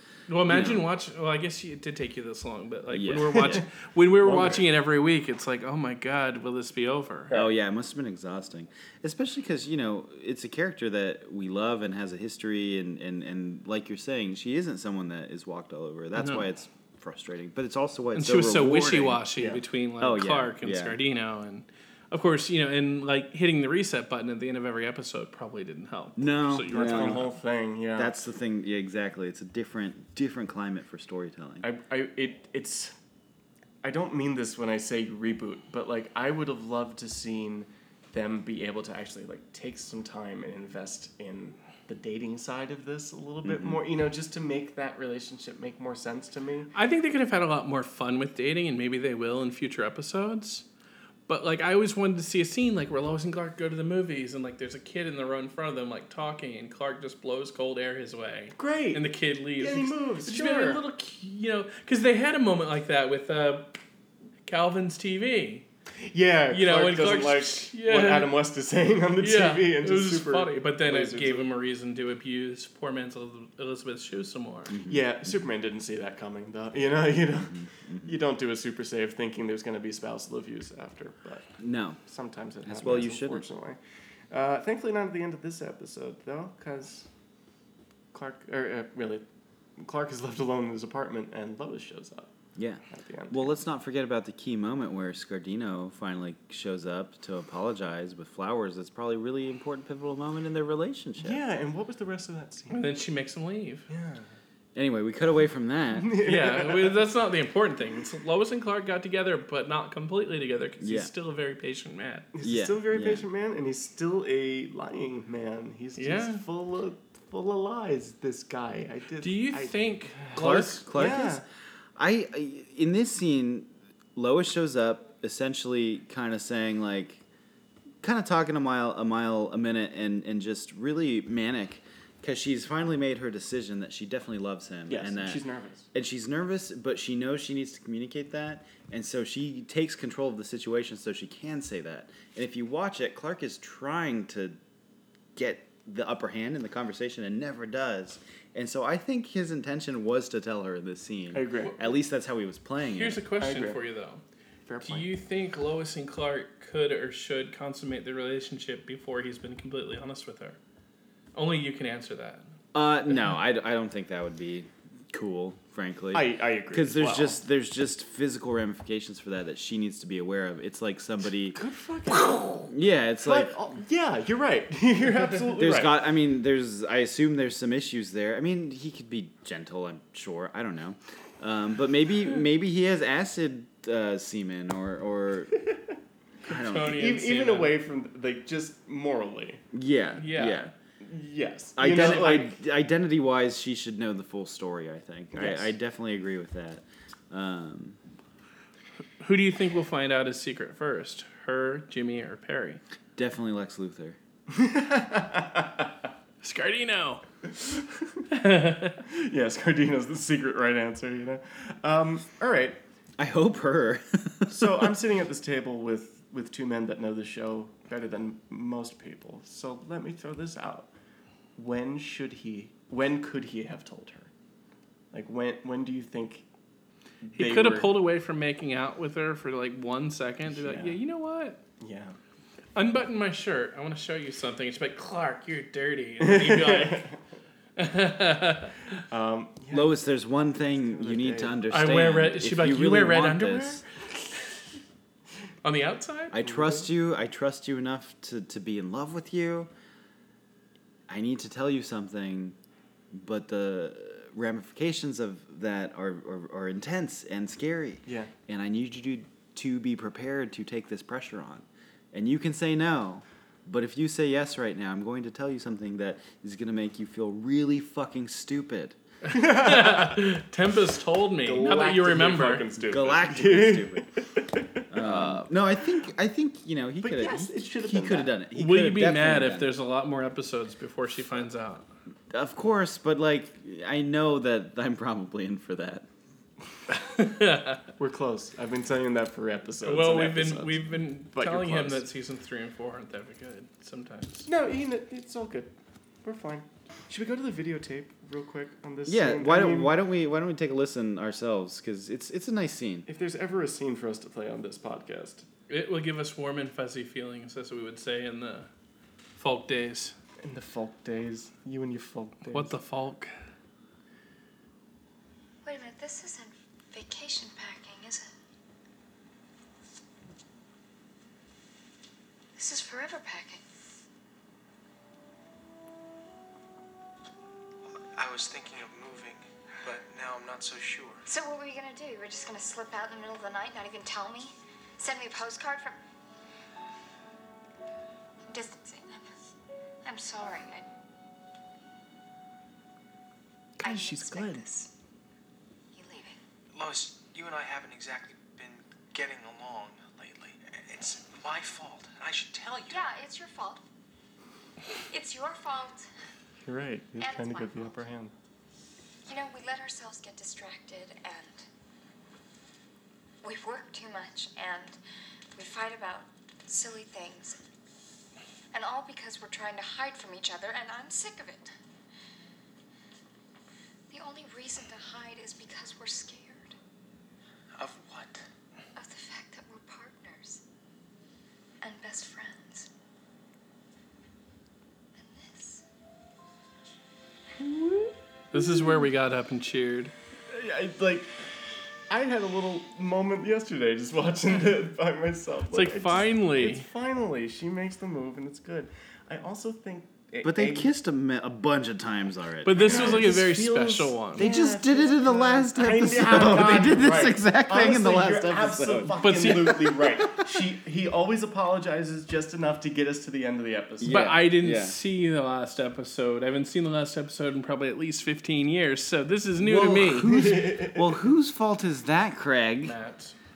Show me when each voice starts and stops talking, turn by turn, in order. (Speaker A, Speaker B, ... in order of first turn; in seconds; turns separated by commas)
Speaker A: 0.3-7.3, Speaker B: 0.5-0.9, Speaker B: 2.9-3.7, Speaker C: 3.3-3.6, Speaker B: 4.2-4.7, Speaker B: 7.3-19.2, Speaker A: 16.2-16.5, Speaker A: 18.1-27.2, Speaker C: 19.4-19.6, Speaker B: 20.0-21.0, Speaker B: 26.2-27.3, Speaker C: 26.7-28.1, Speaker B: 27.9-31.7, Speaker C: 31.6-33.0, Speaker C: 33.8-46.7, Speaker B: 43.5-43.8, Speaker A: 46.7-50.6, Speaker A: 51.3-63.8, Speaker C: 58.6-59.0, Speaker C: 59.6-60.8, Speaker A: 64.5-65.7, Speaker C: 66.0-71.5, Speaker A: 66.5-68.3, Speaker A: 69.2-74.8, Speaker B: 74.7-75.0, Speaker C: 74.9-81.5, Speaker B: 77.5-78.2, Speaker B: 81.6-82.0, Speaker C: 82.1-83.8, Speaker B: 82.6-83.4, Speaker C: 84.3-87.1, Speaker C: 88.1-89.2, Speaker C: 89.8-92.3, Speaker B: 92.6-101.4, Speaker C: 92.9-93.5, Speaker C: 101.2-102.8, Speaker A: 102.7-103.9, Speaker C: 103.9-104.3, Speaker B: 104.8-106.1, Speaker C: 105.9-107.0, Speaker A: 106.2-112.3, Speaker B: 110.8-111.1, Speaker C: 112.3-121.4, Speaker B: 112.4-113.2, Speaker A: 116.0-116.4, Speaker A: 119.2-120.8, Speaker B: 120.3-121.4, Speaker B: 122.0-127.2, Speaker B: 128.0-135.4, Speaker C: 134.9-135.9, Speaker B: 135.9-144.6, Speaker B: 145.3-153.2, Speaker C: 151.3-151.8, Speaker A: 152.9-154.2, Speaker C: 153.4-153.8, Speaker C: 154.7-155.1, Speaker A: 154.8-160.6, Speaker A: 161.3-162.5, Speaker B: 162.7-171.6, Speaker C: 166.1-167.4, Speaker C: 171.5-172.7, Speaker B: 172.3-173.5, Speaker C: 173.2-176.0, Speaker B: 175.6-185.6, Speaker B: 186.5-187.0, Speaker A: 186.5-187.8, Speaker C: 186.7-189.6, Speaker B: 189.7-190.7, Speaker A: 190.2-190.7, Speaker C: 191.0-192.6, Speaker B: 191.8-198.0, Speaker C: 195.3-195.7, Speaker A: 199.2-202.8, Speaker B: 203.2-204.2, Speaker C: 204.5-205.9, Speaker A: 206.4-207.2, Speaker A: 208.3-209.0, Speaker C: 209.1-212.8, Speaker B: 213.2-214.9, Speaker C: 214.5-220.9, Speaker C: 221.6-224.3, Speaker C: 225.1-226.5, Speaker C: 227.3-227.9, Speaker A: 227.4-231.6, Speaker C: 230.5-231.0, Speaker C: 231.8-232.2, Speaker A: 232.8-237.1, Speaker C: 236.2-237.2, Speaker A: 237.8-238.9, Speaker C: 239.1-239.9, Speaker B: 239.7-243.8, Speaker C: 240.8-241.6, Speaker A: 241.7-243.8, Speaker A: 245.6-246.4, Speaker B: 246.3-249.7, Speaker C: 246.4-246.9, Speaker B: 251.1-252.6, Speaker B: 253.1-269.0, Speaker A: 269.3-272.6, Speaker C: 269.3-270.1, Speaker C: 271.4-275.5, Speaker B: 272.9-274.1, Speaker B: 274.9-279.7, Speaker C: 277.0-278.4, Speaker A: 278.6-281.9, Speaker B: 282.3-286.1, Speaker A: 287.0-287.8, Speaker C: 288.0-292.0, Speaker A: 289.8-294.5, Speaker C: 294.5-295.7, Speaker C: 296.2-299.9, Speaker B: 299.1-303.1, Speaker C: 303.1-305.5, Speaker A: 305.7-308.7, Speaker A: 309.4-310.1, Speaker C: 310.4-312.8, Speaker A: 312.5-313.3, Speaker D: 315.6-318.3, Speaker D: 322.6-323.6, Speaker E: 328.1-331.2, Speaker D: 331.3-336.0, Speaker D: 338.5-339.3, Speaker D: 340.1-340.9, Speaker C: 343.8-344.6, Speaker D: 343.8-344.9, Speaker D: 345.9-346.4, Speaker E: 346.7-353.1, Speaker D: 352.9-353.8, Speaker D: 355.1-356.1, Speaker C: 356.6-358.3, Speaker D: 357.2-358.0, Speaker D: 359.3-361.7, Speaker D: 363.4-365.0, Speaker D: 365.6-367.6, Speaker D: 368.7-371.7, Speaker D: 374.1-376.8, Speaker E: 377.8-378.5, Speaker D: 378.9-380.6, Speaker D: 381.8-382.9, Speaker D: 385.2-385.8, Speaker C: 387.6-389.1, Speaker A: 388.5-390.1, Speaker C: 390.5-391.5, Speaker C: 392.1-400.9, Speaker A: 395.7-396.9, Speaker B: 400.4-403.4, Speaker A: 402.6-404.5, Speaker C: 402.8-414.2, Speaker B: 404.4-409.8, Speaker A: 409.2-410.1, Speaker B: 414.0-415.0, Speaker A: 414.1-420.5, Speaker B: 419.6-422.9, Speaker C: 420.3-421.2, Speaker A: 422.8-423.4